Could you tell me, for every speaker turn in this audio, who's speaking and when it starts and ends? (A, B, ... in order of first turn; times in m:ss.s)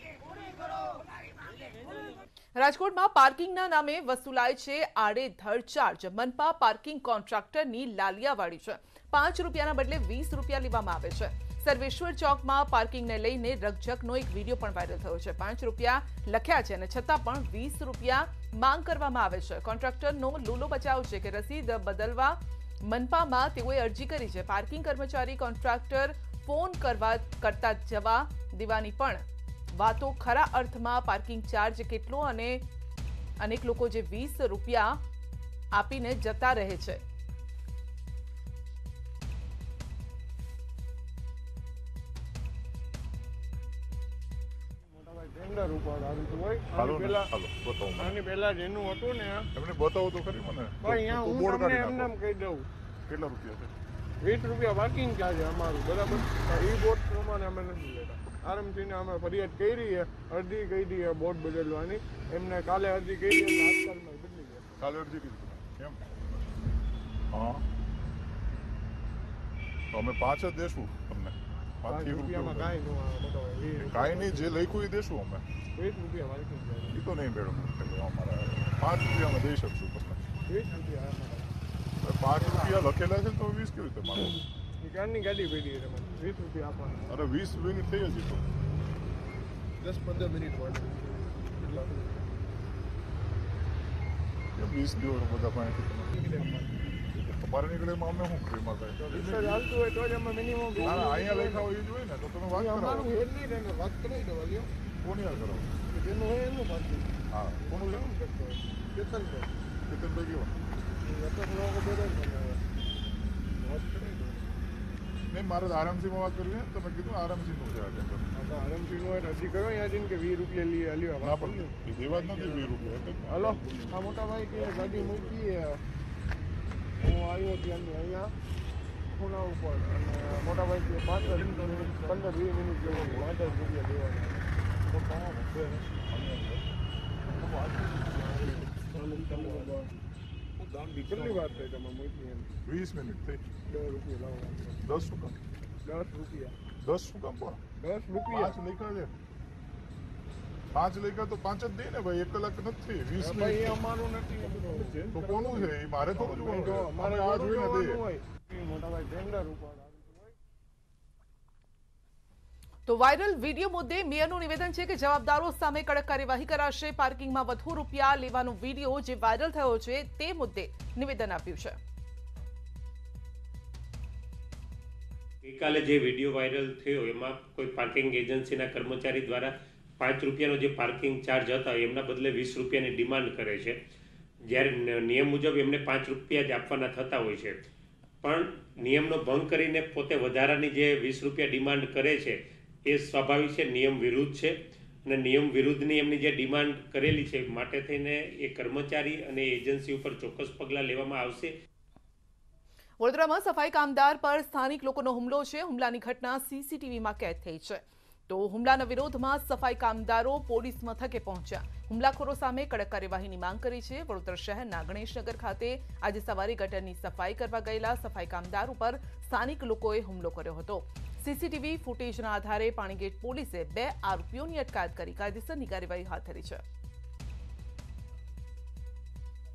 0:02.6-0:32.6 A
0:33.4-0:35.0 A
0:35.7-0:37.0 A
0:44.8-0:47.3 B
0:46.7-0:48.2 C
0:48.0-0:49.5 B
0:49.5-0:52.1 C
0:50.8-0:52.7 B
0:53.1-0:53.7 C
0:54.2-1:04.7 B
1:04.8-1:06.2 C
1:07.3-1:07.6 C
1:09.9-1:12.7 C
1:11.9-1:14.6 B
1:13.8-1:15.4 C
1:15.8-1:17.0 B
1:16.9-1:20.2 C
1:20.5-1:21.5 B
1:22.0-1:24.4 C
1:22.4-1:22.8 B
1:24.8-1:27.0 B
1:27.1-1:28.5 C
1:29.8-1:32.2 B
1:34.6-1:36.4 C
1:36.1-1:36.7 B
1:37.1-1:39.7 C
1:39.0-1:41.7 B
1:40.8-1:43.2 C
1:42.5-1:44.7 B
1:45.0-1:45.7 C
1:45.9-1:49.5 B
1:47.3-1:48.1 C
1:49.9-1:50.6 C
1:51.0-1:52.6 B
1:53.5-1:54.6 B
1:55.3-1:58.3 C
1:58.3-2:02.7 B
2:01.2-2:05.4 C
2:03.3-2:05.8 B
2:07.0-2:08.3 B
2:09.1-2:14.4 B
2:11.2-2:12.2 C
2:12.9-2:13.6 C
2:16.1-2:16.6 C
2:18.1-2:19.8 B
2:18.2-2:18.5 C
2:19.0-2:19.7 C
2:20.8-2:22.5 B
2:21.1-2:21.5 C
2:22.6-2:23.4 C
2:23.7-2:24.8 B
2:24.8-2:25.4 C
2:25.8-2:26.5 B
2:26.8-2:27.6 C
2:27.8-2:28.6 B
2:28.3-2:29.1 C
2:30.7-2:33.8 C
2:33.2-2:40.3 B
2:34.5-2:38.0 C
2:42.9-2:51.8 A
2:55.4-3:03.8 D
3:04.4-3:07.6 D
3:08.2-3:21.5 D
3:23.0-3:46.6 A